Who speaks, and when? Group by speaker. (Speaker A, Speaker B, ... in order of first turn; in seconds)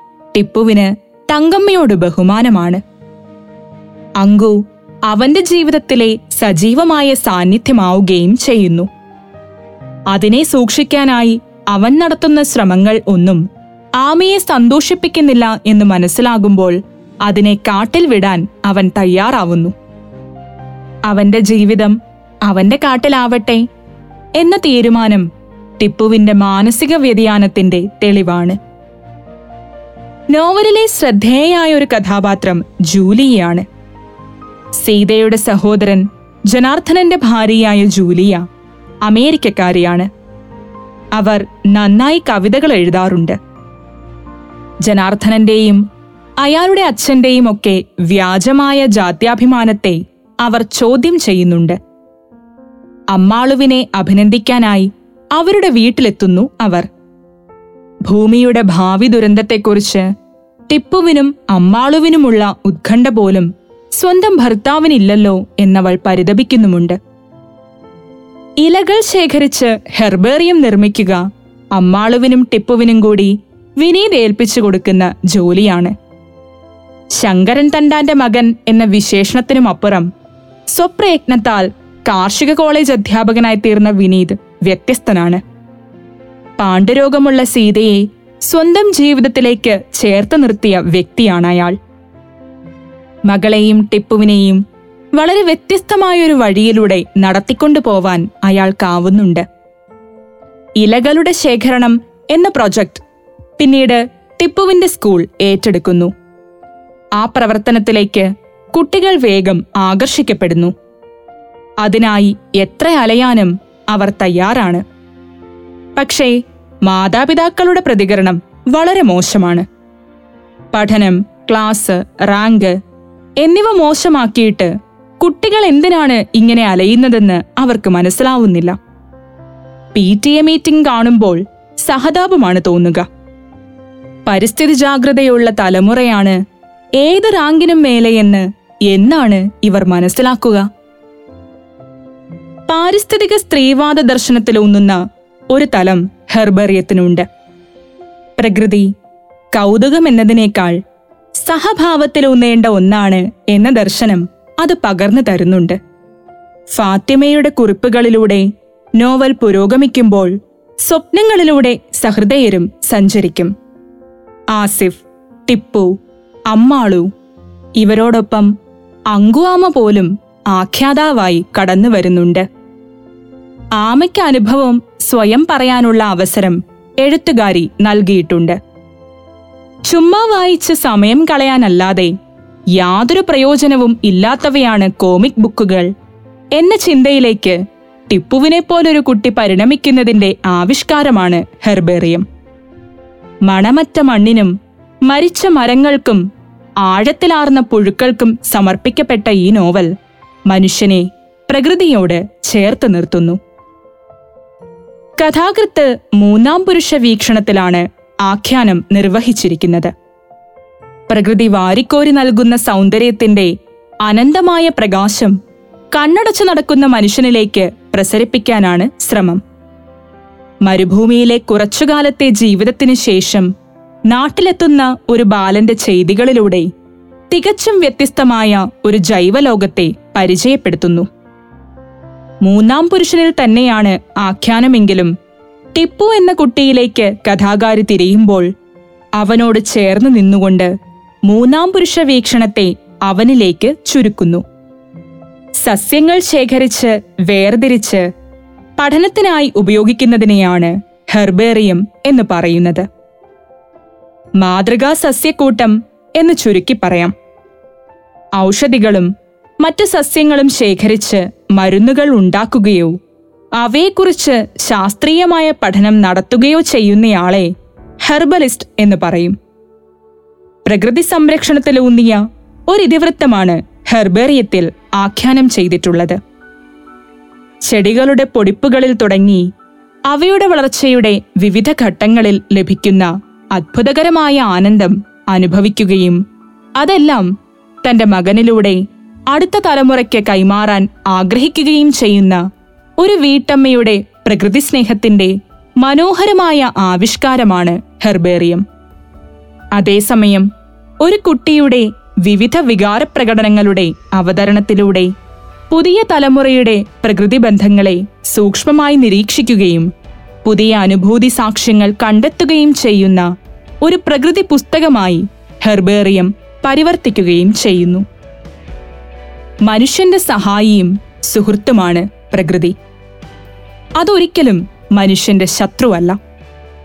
Speaker A: 0.3-2.8, 4.2-4.5, 5.1-8.9, 10.1-13.4, 14.0-19.7, 21.1-23.6, 24.4-25.3, 25.8-28.6, 30.3-33.6, 34.8-38.5, 39.0-40.1, 41.1-43.4, 44.8-45.8, 46.4-51.8, 53.1-56.9, 58.1-60.1, 60.7-67.0, 68.6-71.2, 71.7-75.9, 77.1-80.1, 80.7-85.4, 86.6-91.8, 93.3-94.6, 95.1-99.4, 100.8-103.0, 103.6-106.1, 107.2-110.7, 111.8-114.8, 116.0-119.7, 120.7-122.8, 123.4-128.8, 129.9-133.1, 134.2-136.4, 137.0-140.7, 142.7-145.0, 145.5-147.2, 148.4-148.9, 149.5-150.8, 151.4-155.8, 156.7-158.5, 159.0-163.5, 164.5-165.9, 166.5-167.1, 167.8-168.5, 169.1-172.4, 173.8-178.6, 179.8-182.1, 182.8-185.9, 186.6-187.6, 188.1-192.2, 193.4-194.5, 195.1-196.2, 196.8-199.9, 200.5-203.4, 205.2-209.9, 211.1-213.5, 214.0-215.3, 215.9-219.4, 220.7-223.5, 224.1-226.7, 227.3-231.1, 232.4-235.1, 235.7-238.5, 239.2-240.7, 241.3-244.4, 245.6-248.1, 248.8-252.8, 254.4-257.1, 258.4-259.1, 259.6-262.9, 263.6-267.5, 268.0-269.4, 270.6-276.2, 277.6-279.5, 280.1-286.2, 286.8-287.3, 287.8-288.8, 289.3-292.4, 293.0-298.6, 299.8-300.5, 301.0-305.1, 305.7-309.9, 310.4-313.3, 313.8-318.0, 319.6-322.7, 324.0-326.2